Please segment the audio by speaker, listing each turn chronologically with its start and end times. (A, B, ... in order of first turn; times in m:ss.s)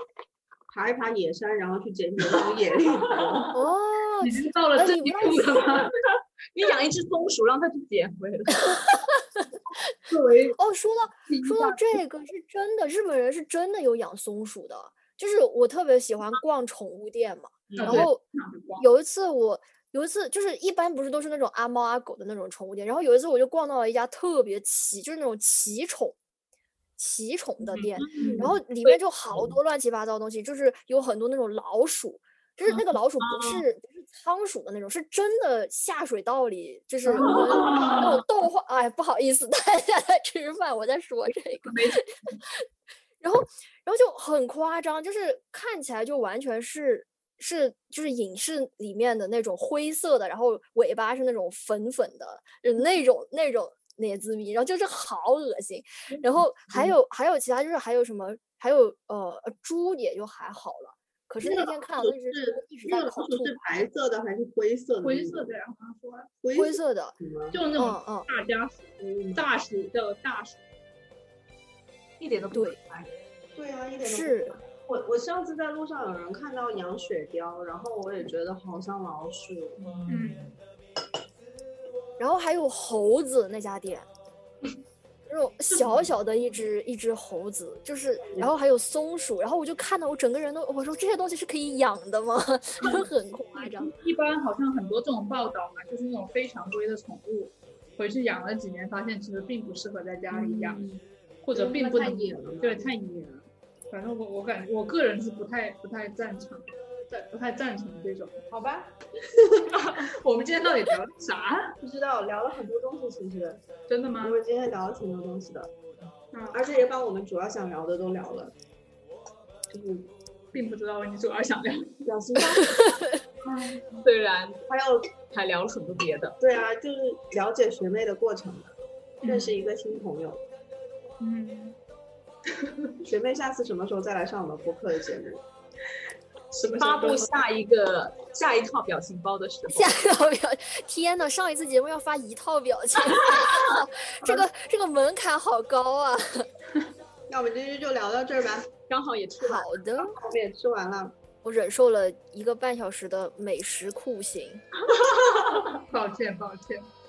0:00.7-0:03.6 A
0:03.5-0:05.7 B
0:04.2-0:05.9 C
0:06.1-0:08.9 D
0:10.1-0:10.6 C
0:10.6-0:18.2 B
0:11.3-0:11.8 C
0:17.7-0:18.1 D
0:17.8-0:18.8 C
0:18.8-0:26.2 B
0:27.0-0:42.6 B
0:28.0-0:28.4 D
0:28.2-0:28.5 A
0:33.2-0:33.6 D
0:37.2-0:38.0 C
0:43.2-1:03.6 B
1:01.4-1:05.5 A
1:05.0-1:06.3 C
1:06.4-1:07.6 A
1:06.5-1:07.2 B
1:07.5-1:10.6 C
1:07.7-1:08.3 B
1:09.0-1:09.4 A
1:12.2-1:13.1 D
1:12.5-1:12.8 B
1:13.6-1:19.8 A
1:14.0-1:14.6 B
1:19.8-1:20.5 D
1:20.1-1:20.5 C
1:22.2-1:24.0 B
1:25.3-1:33.9 B
1:25.7-1:26.1 C
1:33.6-1:40.8 C
1:40.3-1:41.0 A
1:41.4-1:48.4 C
1:41.5-1:42.9 A
1:48.5-1:48.9 A
1:49.6-1:51.7 C
1:51.8-1:53.6 A
1:53.9-1:54.4 C
1:54.2-1:55.7 A
1:56.3-1:56.7 C
1:56.5-1:58.5 A
1:59.7-2:00.1 A
2:00.5-2:02.1 C
2:02.0-2:02.8 A
2:02.6-2:03.2 B
2:03.4-2:04.0 C
2:04.0-2:04.6 D
2:04.7-2:05.1 A
2:05.2-2:06.4 D
2:06.4-2:10.4 A
2:09.2-2:09.5 C
2:11.2-2:11.8 C
2:12.6-2:12.9 C
2:13.0-2:15.4 A
2:16.5-2:17.4 C
2:16.6-2:19.9 D
2:19.7-2:26.5 B
2:27.3-2:28.7 A
2:28.9-2:29.8 D
2:29.4-2:30.2 B
2:30.1-2:31.1 A
2:31.4-2:34.6 B
2:35.7-2:36.9 C